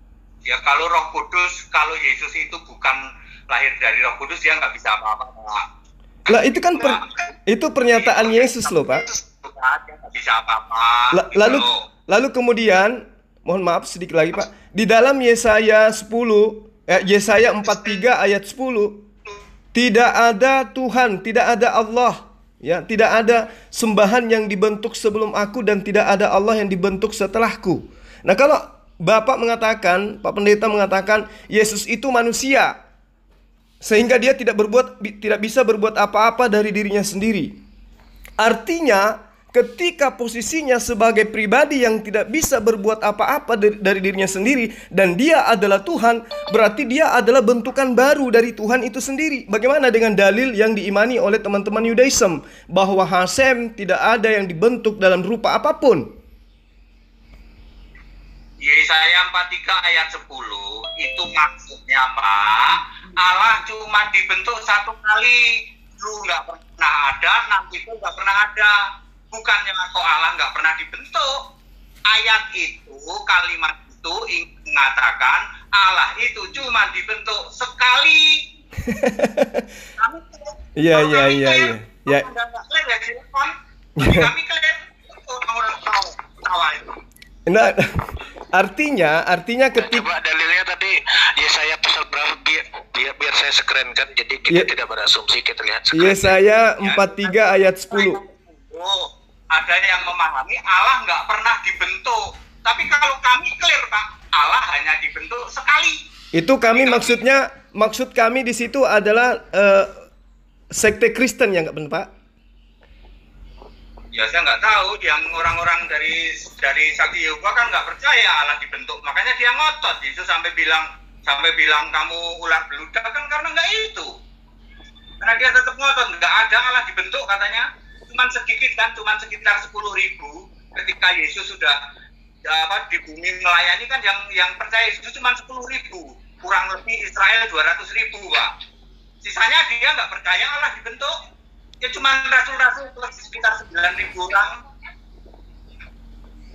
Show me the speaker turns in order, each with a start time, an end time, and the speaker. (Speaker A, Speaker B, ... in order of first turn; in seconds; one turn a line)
Speaker A: 0.5-5.6
Speaker B: 6.3-9.1
Speaker A: 8.0-11.8
Speaker B: 11.1-19.0
Speaker B: 19.7-32.8
Speaker B: 33.8-37.6
Speaker B: 38.4-56.0
Speaker A: 58.6-65.4
Speaker A: 66.0-68.8
Speaker A: 69.3-71.3
Speaker A: 72.1-78.4
Speaker B: 78.9-79.7
Speaker A: 80.0-87.0
Speaker B: 80.8-82.3
Speaker B: 84.0-84.3
Speaker B: 87.5-90.1
Speaker C: 89.8-96.3
Speaker B: 95.9-98.2
Speaker A: 96.8-106.0
Speaker B: 106.3-109.9
Speaker A: 106.6-107.2
Speaker B: 110.7-112.1
Speaker A: 114.1-124.1
Speaker A: 125.2-131.8
Speaker A: 132.5-138.5
Speaker A: 139.2-141.1
Speaker A: 141.8-144.6